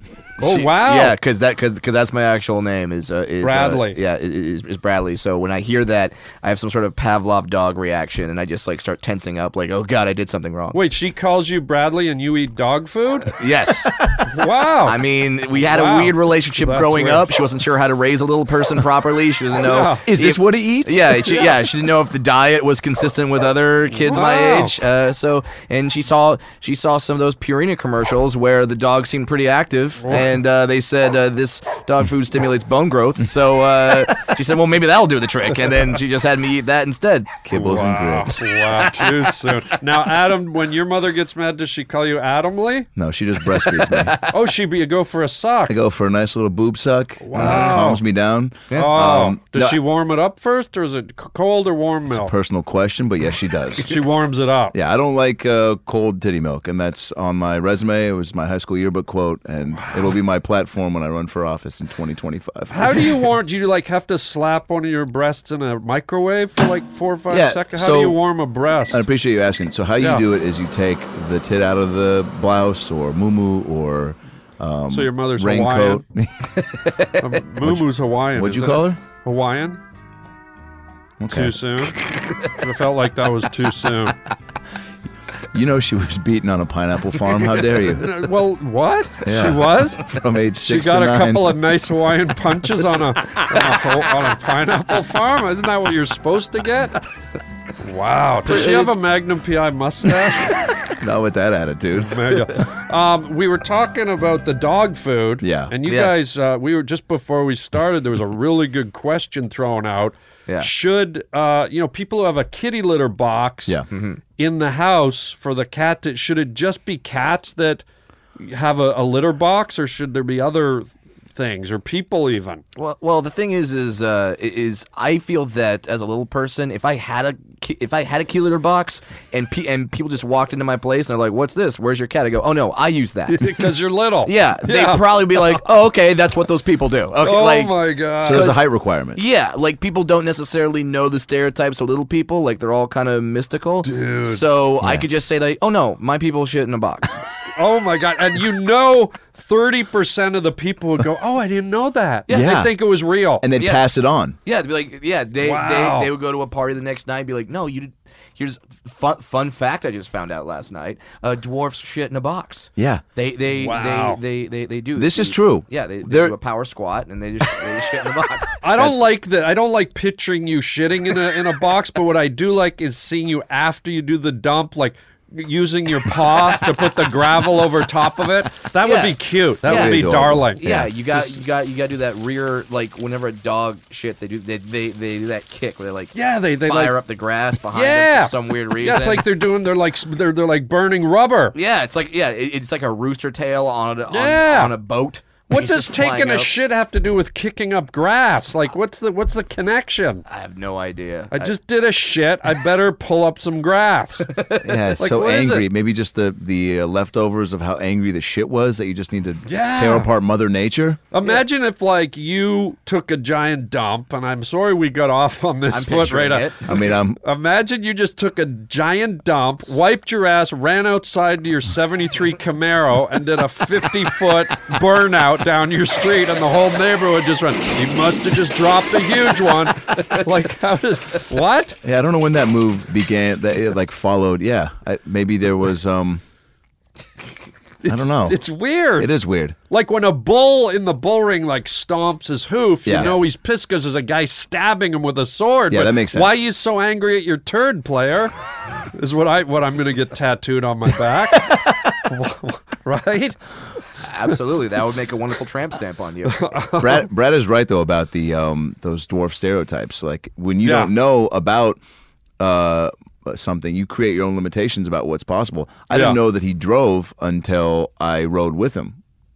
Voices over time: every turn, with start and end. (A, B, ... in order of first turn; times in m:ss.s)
0:00.4-0:10.8 A
0:00.4-0:01.2 B
0:03.4-0:04.0 B
0:10.7-0:13.3 B
0:13.4-0:14.0 A
0:14.3-0:15.0 B
0:14.8-0:37.4 A
0:15.6-0:17.2 B
0:19.6-0:20.1 B
0:20.1-0:21.6 C
0:24.1-0:24.8 B
0:37.4-0:38.5 C
0:37.5-0:42.9 B
0:43.0-0:44.2 C
0:43.8-0:44.2 A
0:44.3-0:45.8 B
0:45.7-0:49.8 C
0:47.2-0:48.0 B
0:47.4-0:48.0 A
0:48.7-0:49.0 A
0:48.7-0:52.3 B
0:52.1-0:54.0 C
0:53.8-0:54.8 B
0:54.7-1:03.1 C
1:02.7-1:09.0 B
1:07.3-1:08.2 C
1:08.9-1:16.5 C
1:10.0-1:10.2 B
1:14.9-1:16.0 B
1:17.2-1:19.8 B
1:17.6-1:19.0 C
1:21.2-1:21.6 C
1:21.3-1:24.2 B
1:25.5-1:28.2 C
1:28.0-1:30.0 B
1:29.2-1:31.6 C
1:30.6-1:37.0 B
1:37.8-1:40.5 B
1:41.0-1:42.4 C
1:42.0-1:53.8 B
1:45.4-1:45.7 C
1:45.9-1:46.2 A
1:53.9-1:54.2 A
1:54.4-1:57.8 B
1:58.4-2:02.6 B
2:02.8-2:13.7 A
2:13.3-2:15.6 B
2:14.2-2:18.6 A
2:17.2-2:18.6 B
2:18.2-2:19.2 C
2:19.2-2:27.2 A
2:23.8-2:24.4 B
2:24.8-2:25.1 C
2:27.6-2:33.5 B
2:32.3-2:32.6 A
2:32.3-2:32.7 C
2:33.4-2:34.4 C
2:33.6-2:33.9 A
2:34.4-2:48.6 A
2:35.4-2:36.1 B
2:42.8-2:43.0 C
2:43.6-2:44.2 B
2:45.0-2:46.4 C
2:48.6-3:00.6 B
2:48.8-2:49.0 C
2:58.8-3:09.3 A
2:59.7-3:00.9 C
3:06.1-3:07.0 B
3:07.7-3:11.6 B
3:11.5-3:16.5 A
3:14.1-3:14.7 B
3:15.5-3:20.2 B
3:20.3-3:21.6 A
3:21.3-3:24.3 B
3:24.3-3:24.8 A
3:24.6-3:31.0 C
3:25.0-3:25.7 B
3:29.5-3:30.1 B
3:31.1-3:36.6 B
3:35.7-3:36.8 A
3:36.7-3:37.2 C
3:37.2-3:51.8 B
3:51.8-3:56.2 C
3:57.8-3:59.1 B
3:57.9-3:58.4 C
3:59.0-3:59.6 C
3:59.7-4:08.3 B
4:02.8-4:03.2 C
4:05.7-4:06.4 C
4:08.9-4:13.4 B
4:14.0-4:16.5 A
4:16.3-4:17.0 B
4:16.8-4:21.8 C
4:20.6-4:20.9 B
4:22.4-4:29.0 C
4:25.9-4:26.2 B